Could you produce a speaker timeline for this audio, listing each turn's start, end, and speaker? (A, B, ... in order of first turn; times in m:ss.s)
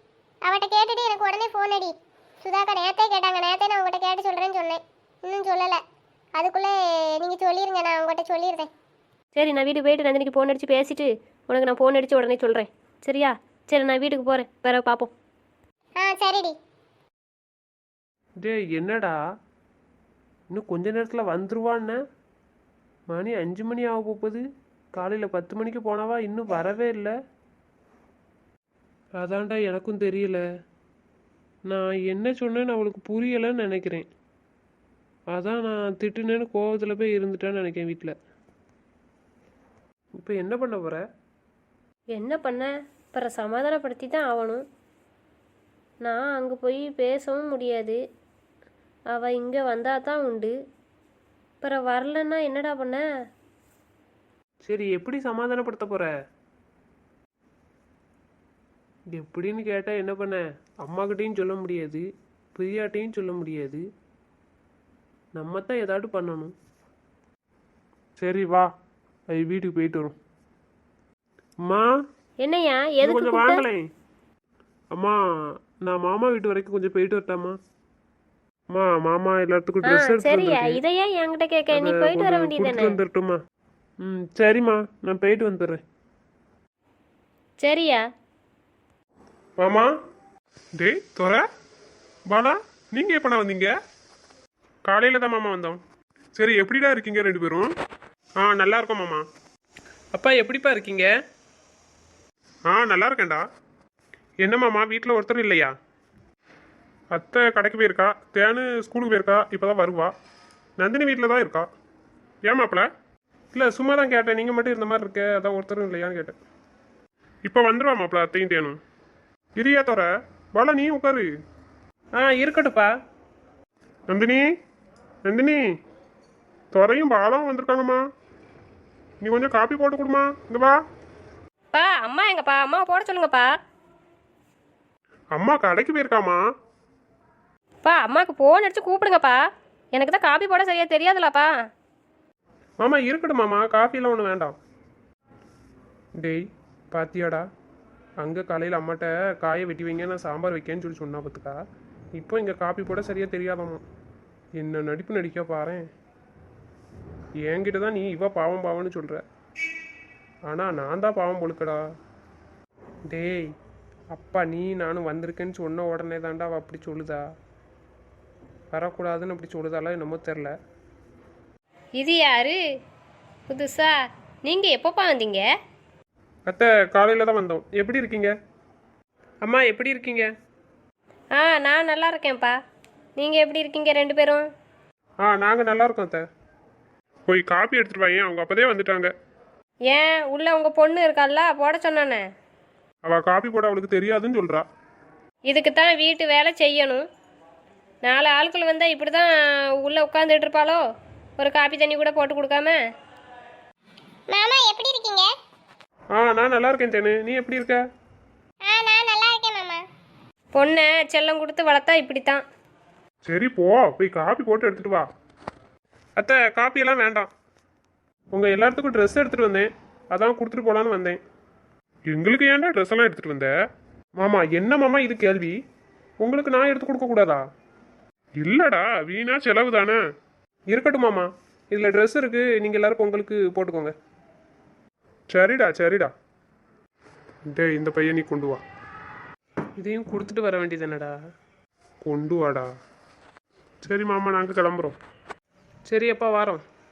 0:00.4-0:05.8 A
0:06.4-0:08.7 A
0:09.4-0:15.1 B
0:16.0-0:16.5 A
0:18.4-0:19.1 C
0:20.5-0:22.0 C
0:23.1-0:24.4 C
0:25.0-0:27.1 C
0:29.2-0:30.4 C
0:31.7-0:34.0 C
0:35.3-0:38.1 C
0:40.2-0:41.0 C
0:42.1-0:44.6 B
0:46.0-0:48.0 B
0:49.1-0:50.5 B
0:51.6-0:53.0 B
0:54.7-0:56.1 C
0:59.2-1:02.0 C
1:02.6-1:03.8 C
1:05.7-1:06.5 C
1:08.2-1:08.7 C
1:09.3-1:10.1 C
1:12.4-1:13.6 B
1:13.0-1:13.9 C
1:15.8-1:17.6 C
1:18.7-1:20.8 C
1:19.8-1:23.0 B
1:21.7-1:23.4 C
1:24.0-1:25.8 C
1:27.6-1:28.0 B
1:29.6-1:29.9 C
1:30.8-1:31.4 C
1:32.3-1:33.7 C
1:34.8-1:35.8 C
1:36.4-1:37.7 C
1:38.4-1:39.2 C
1:40.1-1:41.1 C
1:42.7-1:43.4 C
1:44.4-1:45.7 C
1:47.1-1:50.1 C
1:50.8-1:51.6 C
1:52.4-1:52.8 C
1:53.5-1:56.4 C
1:57.4-1:58.8 C
1:59.6-2:01.3 C
2:02.2-2:02.9 C
2:04.1-2:04.4 C
2:05.2-2:05.6 C
2:06.7-2:08.0 C
2:09.2-2:10.8 C
2:11.7-2:13.5 B
2:15.3-2:16.4 C
2:17.8-2:19.4 B
2:19.9-2:21.5 B
2:22.8-2:24.6 C
2:26.2-2:27.4 C
2:28.2-2:31.6 C
2:32.1-2:33.8 C
2:34.6-2:35.9 C
2:37.4-2:39.2 C
2:40.5-2:41.8 C
2:43.1-2:43.5 C
2:44.1-2:47.2 C
2:48.7-2:50.5 C
2:52.0-2:52.6 B
2:53.5-2:55.4 B
2:56.4-2:58.3 C
2:59.4-3:00.3 C
3:01.3-3:02.6 B
3:03.2-3:04.5 B
3:05.2-3:06.2 C
3:07.3-3:09.1 C
3:09.9-3:12.2 B
3:13.0-3:14.6 C
3:15.5-3:17.0 B
3:18.0-3:20.8 B
3:21.4-3:22.8 B
3:24.3-3:25.3 A
3:26.1-3:27.8 C
3:28.6-3:29.8 A
3:30.5-3:32.4 B
3:33.2-3:35.0 C
3:36.2-3:37.3 C
3:38.3-3:41.2 C
3:42.1-3:43.5 C
3:44.2-3:45.6 C
3:46.2-3:47.4 C
3:48.4-3:50.0 C
3:50.7-3:53.9 C
3:55.3-3:56.1 C
3:57.5-3:58.6 C
3:59.8-4:01.1 C
4:02.0-4:02.7 C
4:03.8-4:05.0 C
4:05.9-4:06.6 C